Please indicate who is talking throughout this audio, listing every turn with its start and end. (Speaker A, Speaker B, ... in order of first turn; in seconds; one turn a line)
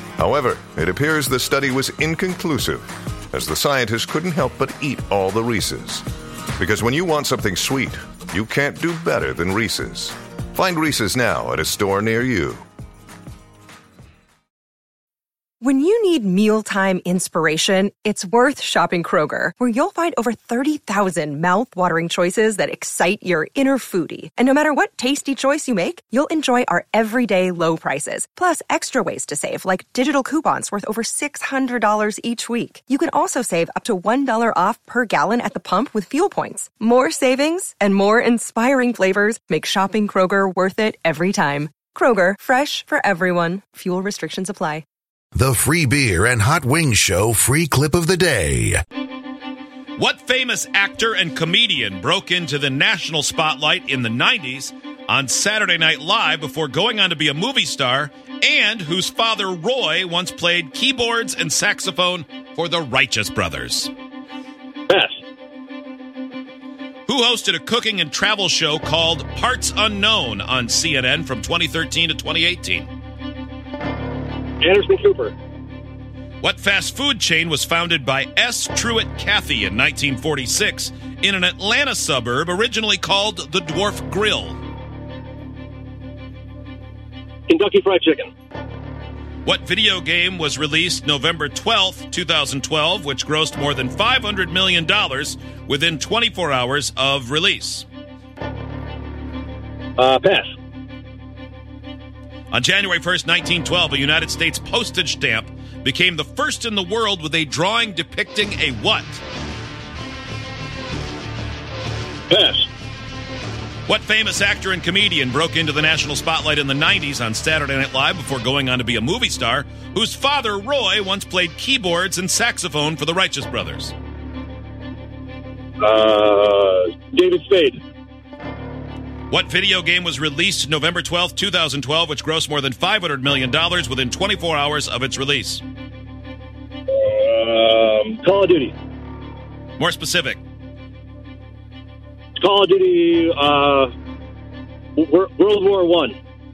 Speaker A: 0.2-6.0
Speaker A: 6.6-12.6
Speaker B: 15.6-44.8
Speaker C: 45.3-48.8
Speaker D: 50.0-63.9
Speaker E: 64.9-65.2
Speaker D: 67.1-72.9
Speaker E: 74.6-75.3
Speaker D: 76.4-84.6
Speaker E: 87.5-88.3
Speaker D: 89.4-97.8
Speaker E: 100.0-100.5
Speaker D: 102.5-109.2
Speaker E: 112.3-112.7
Speaker D: 113.9-123.9
Speaker E: 125.8-127.8
Speaker D: 129.3-135.6
Speaker E: 136.9-138.7
Speaker D: 139.8-140.4
Speaker E: 142.4-143.9
Speaker E: 144.9-146.2